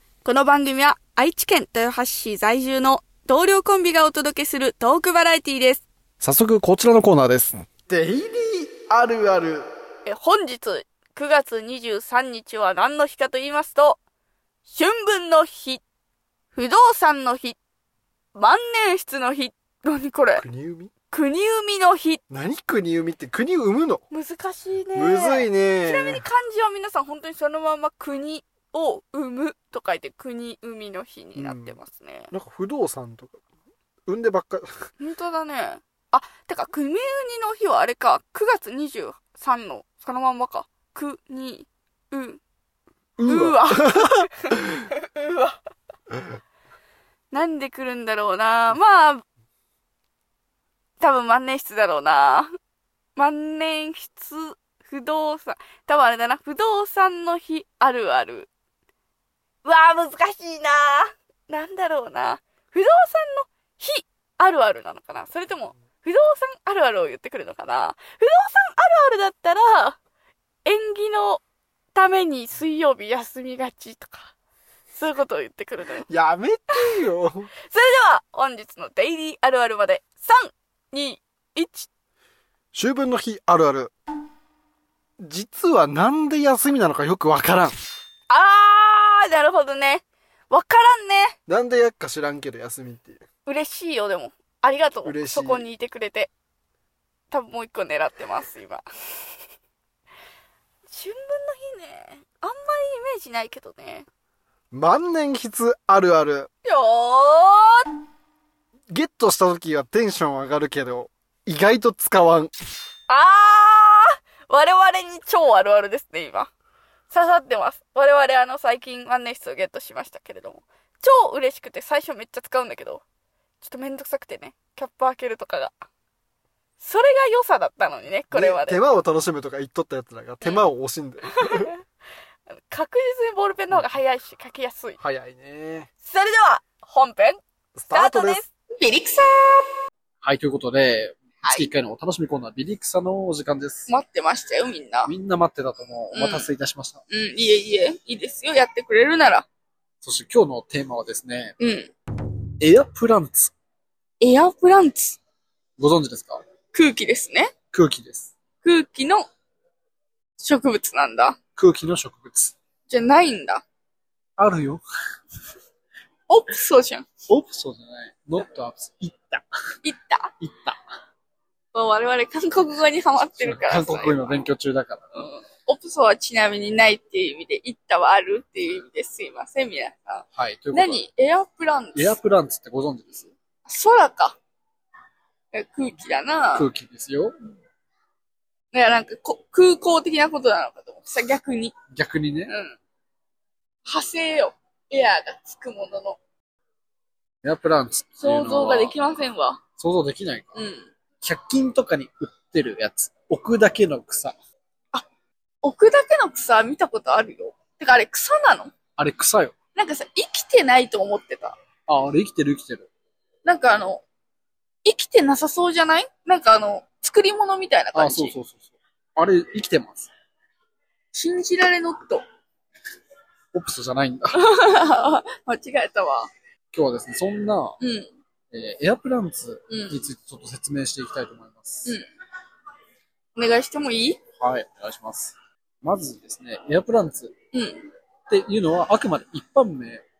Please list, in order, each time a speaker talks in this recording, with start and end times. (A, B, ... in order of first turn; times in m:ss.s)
0:00.2-0:05.8 A
0:06.2-0:07.8 B
0:07.7-0:09.6 C
0:10.0-0:14.0 A
0:14.7-0:15.8 A
0:16.5-0:17.6 A
0:18.3-0:20.4 A
0:20.4-0:20.9 C
0:21.1-0:22.2 A
0:22.3-0:24.0 C
0:24.1-0:32.3 A
0:24.9-0:26.2 C
0:31.4-0:31.8 C
0:32.3-0:33.4 C
0:34.1-0:34.8 C
0:35.0-0:42.4 A
0:43.2-0:44.3 C
0:43.2-0:45.6 A
0:47.3-0:49.2 A
0:51.0-0:52.5 A
0:53.2-0:58.5 A
0:59.6-1:10.0 A
1:10.6-1:11.4 A
1:11.9-1:14.3 A
1:14.9-1:16.1 A
1:16.1-1:17.5 C
1:16.7-1:17.1 A
1:17.6-1:21.9 A
1:22.7-1:23.9 C
1:25.2-1:27.7 C
1:28.3-1:31.4 A
1:31.5-1:33.2 C
1:33.4-1:36.3 A
1:35.0-1:35.6 C
1:37.3-1:38.8 A
1:40.9-1:44.1 A
1:44.7-1:46.5 C
1:46.6-1:47.9 A
1:48.9-1:52.5 C
1:53.1-1:56.5 A
1:57.1-2:03.0 A
2:03.6-2:05.7 A
2:06.8-2:08.8 A
2:08.3-2:11.7 C
2:10.4-2:10.7 A
2:11.2-2:11.7 A
2:12.5-2:15.0 A
2:15.0-2:15.9 C
2:16.0-2:19.6 A
2:17.8-2:18.4 C
2:20.2-2:23.9 B
2:21.4-2:21.7 A
2:23.9-2:25.1 A
2:25.0-2:27.0 B
2:26.1-2:26.5 A
2:27.1-2:29.4 A
2:30.0-2:31.5 B
2:31.6-2:31.9 A
2:32.6-2:33.5 B
2:34.2-2:35.2 A
2:35.8-2:36.4 B
2:36.7-2:37.5 A
2:37.7-2:38.3 B
2:38.6-2:39.2 A
2:40.4-2:41.4 A
2:41.6-2:42.6 B
2:42.9-2:43.6 A
2:44.4-2:44.8 B
2:46.3-2:47.1 A
2:47.3-2:49.4 B
2:49.8-2:50.3 A
2:50.4-2:50.8 B
2:51.7-2:54.4 A
2:53.3-2:55.2 B
2:55.1-3:02.2 A
3:00.3-3:01.0 B
3:01.9-3:03.3 B
3:03.6-3:04.4 A
3:05.5-3:06.7 A
3:06.5-3:07.3 B
3:08.7-3:11.8 A
3:11.9-3:12.5 B
3:12.5-3:12.8 A
3:13.8-3:16.2 A
3:17.4-3:19.0 B
3:18.2-3:19.6 A
3:19.8-3:20.6 B
3:20.5-3:20.9 A
3:21.2-3:24.3 B
3:25.6-3:28.7 A
3:29.0-3:29.6 B
3:29.7-3:31.6 A
3:31.9-3:32.9 B
3:33.4-3:34.0 A
3:34.8-3:38.3 A
3:37.9-3:40.1 B
3:41.1-3:42.2 A
3:43.5-3:44.6 B
3:44.3-3:46.3 A
3:46.7-3:47.8 B
3:47.8-3:48.1 A
3:48.5-3:52.0 B
3:49.7-3:50.0 A
3:53.3-3:54.2 A
3:54.3-3:57.3 B
3:57.5-3:57.9 A
3:58.3-4:00.0 B